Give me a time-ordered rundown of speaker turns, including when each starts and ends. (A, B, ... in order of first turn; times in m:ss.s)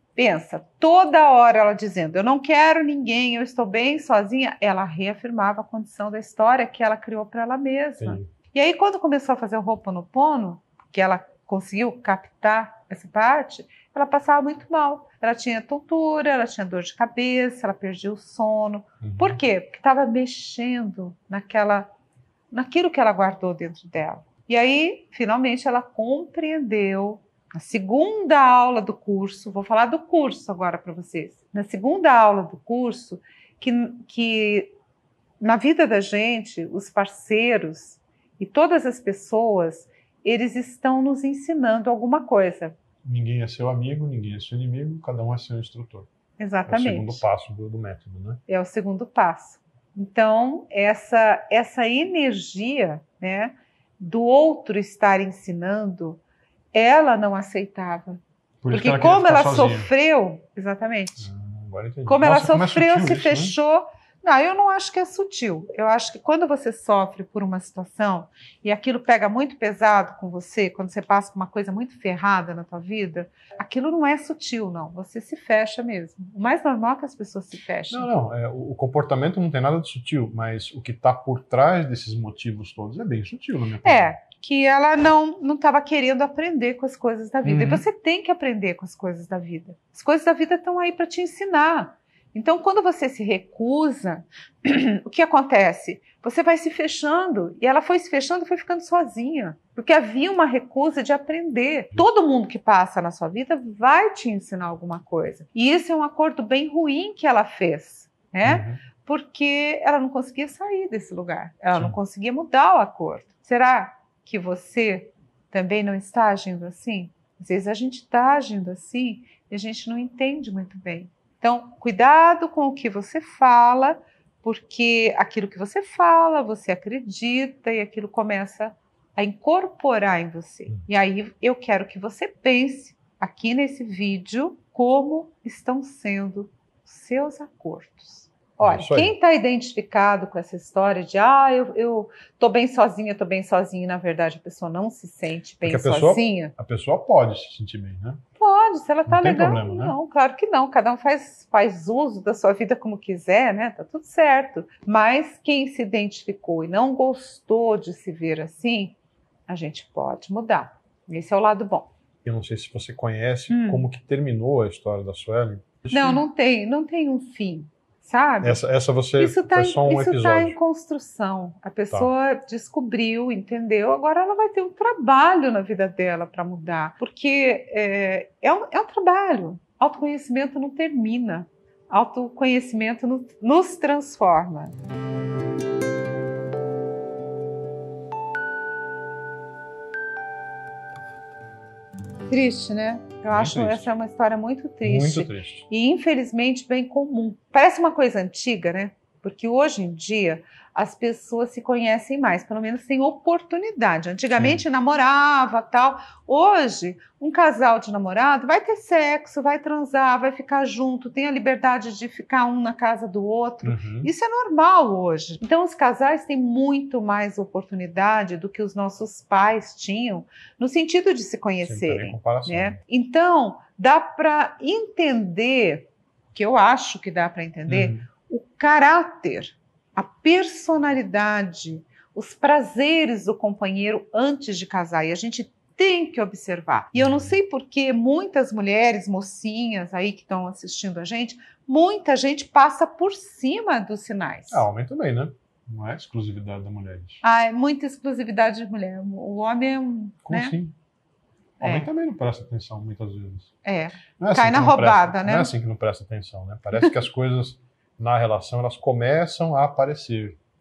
0:00.2-0:21.9 A
0:08.0-0:08.3 B
0:19.0-0:19.4 B
0:22.5-0:34.7 A
0:35.4-0:42.8 A
0:43.0-0:46.1 B
0:46.4-0:47.2 A
0:46.7-0:48.4 B
0:48.5-0:56.2 A
0:56.7-1:01.3 A
0:58.6-0:59.9 B
1:01.2-1:03.6 B
1:02.0-1:18.1 A
1:17.9-1:24.1 B
1:23.8-2:26.5 A
1:27.4-1:27.8 B
1:48.4-1:48.8 B
2:18.6-2:19.1 B
2:25.6-2:28.2 B
2:28.4-2:39.0 A
2:29.0-2:30.0 B
2:39.5-2:41.9 A
2:42.2-2:46.2 B
2:43.5-2:43.8 A
2:45.9-2:48.6 A
2:48.4-2:50.6 B
2:49.2-3:04.7 A
3:12.3-4:04.6 A
3:13.3-3:13.9 B
3:14.8-3:15.7 B
3:24.4-3:24.6 B
3:33.6-3:34.1 B
3:41.6-3:42.8 B
3:47.7-3:48.0 B
3:56.9-3:57.3 B
4:04.5-4:07.2 B
4:07.2-4:10.5 A
4:10.2-4:10.7 B
4:11.6-4:11.9 A
4:11.6-4:13.5 B
4:13.6-4:15.5 A
4:14.1-4:20.4 B